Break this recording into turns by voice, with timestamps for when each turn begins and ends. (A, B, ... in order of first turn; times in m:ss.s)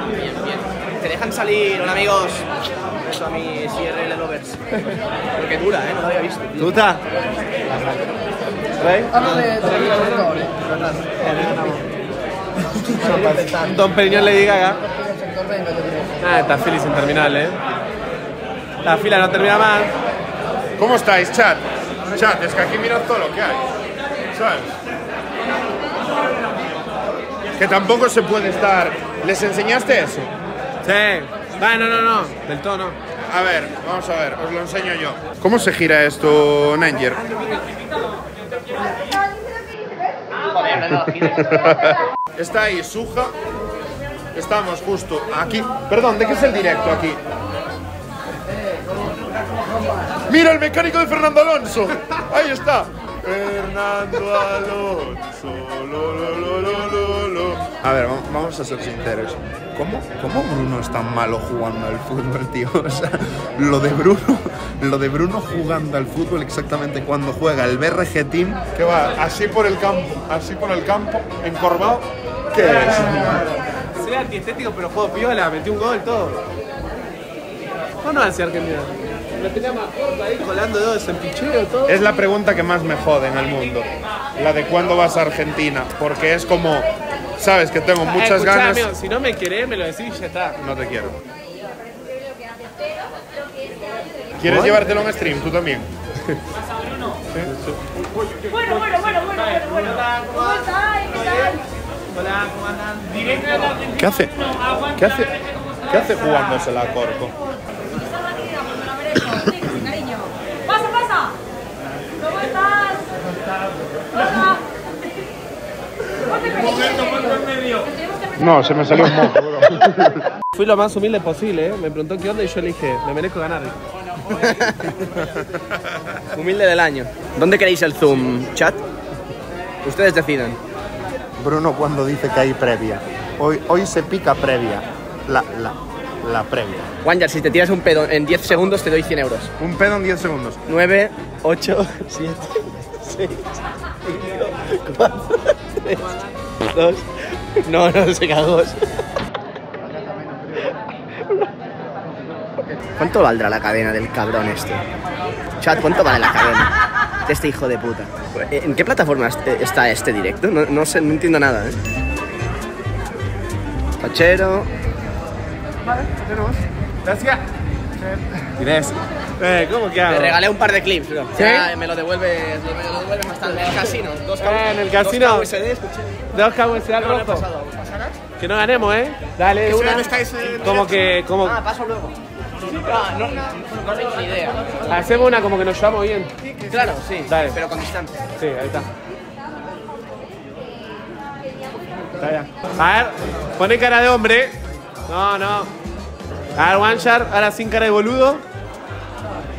0:00.1-0:02.4 A
0:03.0-0:04.6 A
0:05.4-0:06.8 A
0:06.6-0:07.0 B
0:08.8-0:10.5 B
0:11.2-0:11.8 B
0:12.8-0:14.8 B
0:16.2-0:17.6 B
0:18.8-0:19.9 B
0:20.8-0:23.6 C
0:24.3-0:24.7 C
0:27.5-0:30.3 C
0:30.8-0:33.0 B
0:33.3-0:37.4 C
0:40.8-0:43.3 C
0:44.3-0:47.2 C
0:50.3-1:13.4 C
1:12.5-1:13.4 B
1:13.9-1:16.4 B
1:18.0-1:22.0 B
1:21.9-1:28.9 C
1:28.0-1:30.6 B
1:30.6-1:31.2 C
1:34.4-1:35.9 C
1:34.5-1:34.8 B
1:37.4-1:37.8 B
1:38.5-1:41.6 B
1:38.7-1:39.9 D
1:40.6-1:41.6 D
1:42.1-1:43.9 B
1:44.0-1:44.3 C
1:44.9-1:45.3 C
1:45.9-1:47.3 C
1:47.9-1:51.3 D
1:52.2-1:53.1 D
1:54.2-1:54.6 D
1:56.4-1:58.1 D
1:58.4-2:00.2 C
2:00.5-2:03.8 B
2:04.4-2:04.9 A
2:06.4-2:08.8 A
2:09.8-2:10.6 A
2:11.4-2:16.9 C
2:17.0-2:19.5 A
2:19.6-2:20.6 C
2:20.7-2:23.5 A
2:24.1-2:26.1 A
2:26.7-2:27.0 A
2:27.6-2:28.8 A
2:33.0-2:34.8 A
2:35.6-2:36.7 A
2:37.2-2:41.8 A
2:44.0-2:44.7 A
2:45.9-2:47.4 B
2:48.0-2:50.4 B
2:50.1-2:56.1 A
2:54.4-2:55.5 B
2:56.3-2:57.5 B
2:57.0-2:58.1 A
2:58.4-3:01.6 B
2:59.7-3:00.8 A
3:01.4-3:02.1 A
3:02.7-3:04.8 A
3:04.8-3:06.3 B
3:06.6-3:08.1 A
3:07.2-3:07.6 B
3:08.4-3:08.9 B
3:12.2-3:15.7 B
3:16.6-3:18.4 B